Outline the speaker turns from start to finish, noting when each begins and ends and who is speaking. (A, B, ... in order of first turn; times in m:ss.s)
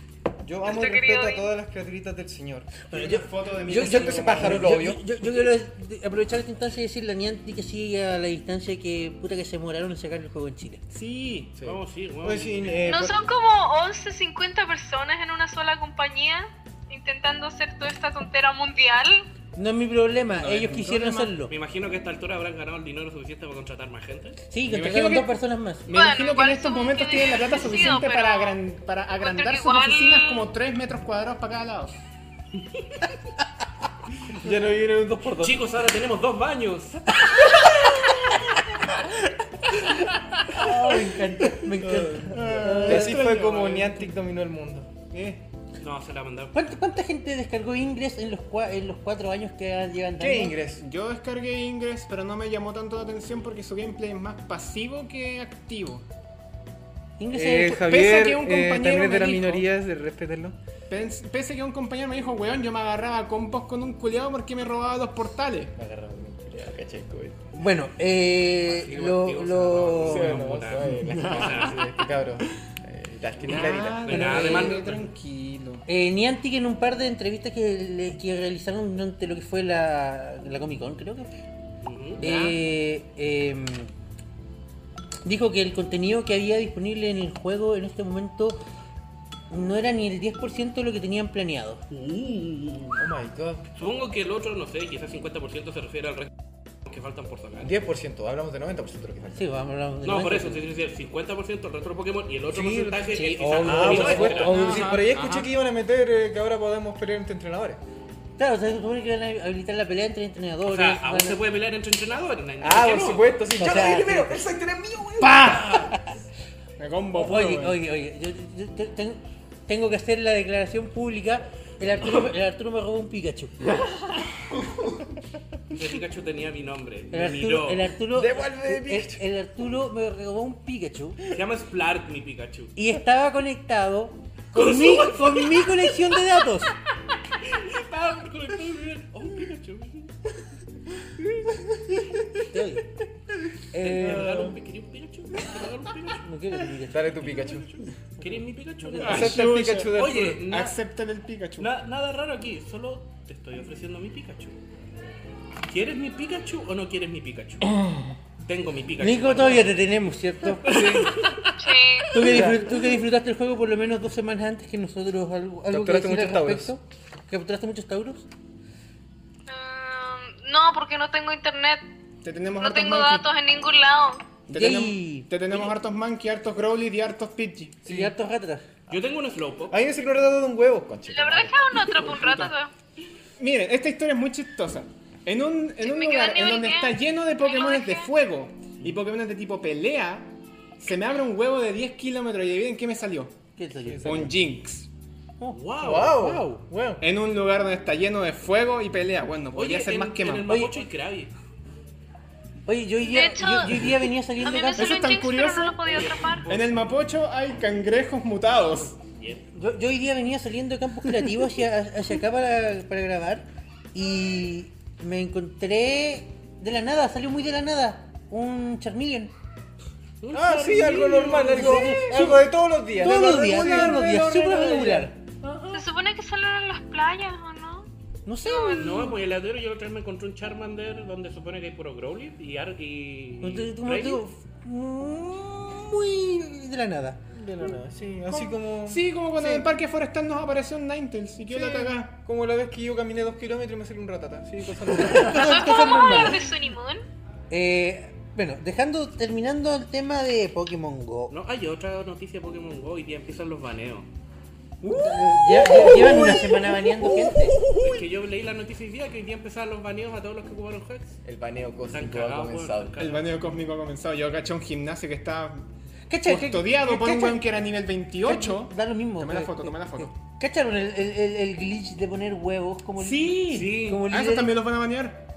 0:00.4-0:02.8 A
0:00.6-0:01.5 B
0:02.9-0:10.8 C
0:02.9-0:04.8 D
0:03.7-0:05.0 A
0:10.9-0:11.5 D
0:11.5-0:13.3 A
0:11.6-0:12.9 E
0:12.8-0:19.3 B
0:19.5-0:21.5 C
0:20.4-0:21.3 D
0:21.5-0:24.4 E
0:24.5-0:25.9 C
0:24.7-0:25.3 D
0:25.8-0:32.0 D
0:25.9-0:28.6 B
0:29.2-0:30.4 B
0:34.3-0:35.6 A
0:35.4-0:37.1 E
0:40.5-0:43.3 C
0:41.8-0:44.9 A
0:42.2-0:44.1 D
0:45.1-0:45.4 D
0:45.8-0:46.6 E
0:46.5-0:50.6 C
0:50.2-0:50.8 A
0:50.8-0:56.0 D
0:57.2-0:57.9 C
0:57.3-1:00.6 A
0:57.8-0:59.7 D
1:00.9-1:05.8 D
1:05.8-1:07.5 A
1:07.5-1:10.5 C
1:08.6-1:11.8 E
1:10.0-1:14.8 A
1:10.9-1:11.7 D
1:13.4-1:15.8 D
1:13.5-1:15.1 E
1:14.3-1:14.6 C
1:15.9-1:21.3 C
1:21.8-1:22.2 E
1:22.2-1:22.6 D
1:22.2-1:23.9 C
1:25.2-1:28.6 C
1:29.5-1:31.8 C
1:31.9-1:33.1 E
1:33.0-1:33.7 A
1:33.8-1:36.3 E
1:36.8-1:37.7 E
1:37.6-1:39.5 A
1:39.3-1:40.6 C
1:40.0-1:44.7 E
1:42.5-1:47.8 A
1:43.1-1:44.9 C
1:44.2-1:45.5 D
1:48.4-1:51.4 C
1:50.6-1:53.4 E
1:52.6-1:55.8 A
1:53.6-1:54.4 C
1:55.2-1:56.0 D
1:55.8-1:56.2 C
1:56.8-1:57.8 D
1:57.1-2:03.7 C
2:05.7-2:07.9 E
2:07.1-2:11.2 C
2:08.1-2:09.2 A
2:11.3-2:12.7 E
2:12.8-2:16.8 C
2:14.5-2:16.2 E
2:17.2-2:20.1 E
2:21.4-2:22.0 A
2:22.5-2:22.9 C
2:23.7-2:24.5 C
2:23.8-2:26.3 E
2:24.1-2:24.4 A
2:26.2-2:27.1 C
2:26.9-2:27.7 A
2:27.1-2:29.4 E
2:28.8-2:29.3 C
2:29.0-2:30.4 A
2:29.0-2:31.7 D
2:29.9-2:30.8 E
2:31.6-2:34.6 E
2:35.7-2:37.8 E
2:38.4-2:39.7 E
2:39.0-2:40.9 C
2:40.6-2:41.2 A
2:40.6-2:41.5 E
2:41.6-2:42.2 B
2:42.1-2:48.3 C
2:42.2-2:42.6 A
2:45.7-2:46.7 A
2:49.5-2:51.8 B
2:52.2-2:53.3 D
2:52.6-2:54.2 B
2:54.5-2:57.8 D
2:54.5-2:55.3 C
2:57.8-2:58.1 A
2:57.8-2:58.6 C
2:58.9-2:59.8 E
2:59.7-3:01.8 A
3:01.1-3:02.7 B
3:02.0-3:02.5 D
3:03.4-3:13.3 D
3:05.8-3:08.1 B
3:13.6-3:14.3 C
3:13.8-3:14.4 A
3:14.0-3:14.9 D
3:15.4-3:16.6 C
3:15.5-3:16.2 E
3:15.8-3:17.0 A
3:17.0-3:20.5 D
3:19.5-3:21.3 E
3:20.5-3:20.7 C
3:22.6-3:25.0 C
3:23.0-3:26.5 B
3:24.8-3:25.8 D
3:26.4-3:29.0 D
3:29.1-3:29.5 E
3:29.5-3:39.3 C
3:40.2-3:42.0 E
3:40.3-3:44.0 A
3:41.2-3:45.1 C
3:43.0-3:45.8 D
3:45.7-3:47.9 B
3:48.2-3:49.1 C
3:48.4-3:49.1 B
3:48.8-3:54.2 E
3:53.4-3:57.2 C
3:57.3-3:59.6 A
3:58.3-4:02.2 D
4:01.5-4:06.0 A
4:05.0-4:06.4 C
4:05.3-4:07.0 B
4:07.5-4:11.3 C
4:11.3-4:14.1 E
4:14.8-4:17.6 C
4:14.8-4:18.0 A
4:17.8-4:21.2 E
4:21.2-4:22.9 A
4:21.9-4:23.3 E
4:23.0-4:25.6 D
4:26.1-4:27.2 C
4:26.2-4:30.1 D
4:26.9-4:27.4 A
4:28.2-4:34.5 C
4:33.0-4:35.2 D
4:33.5-4:34.0 E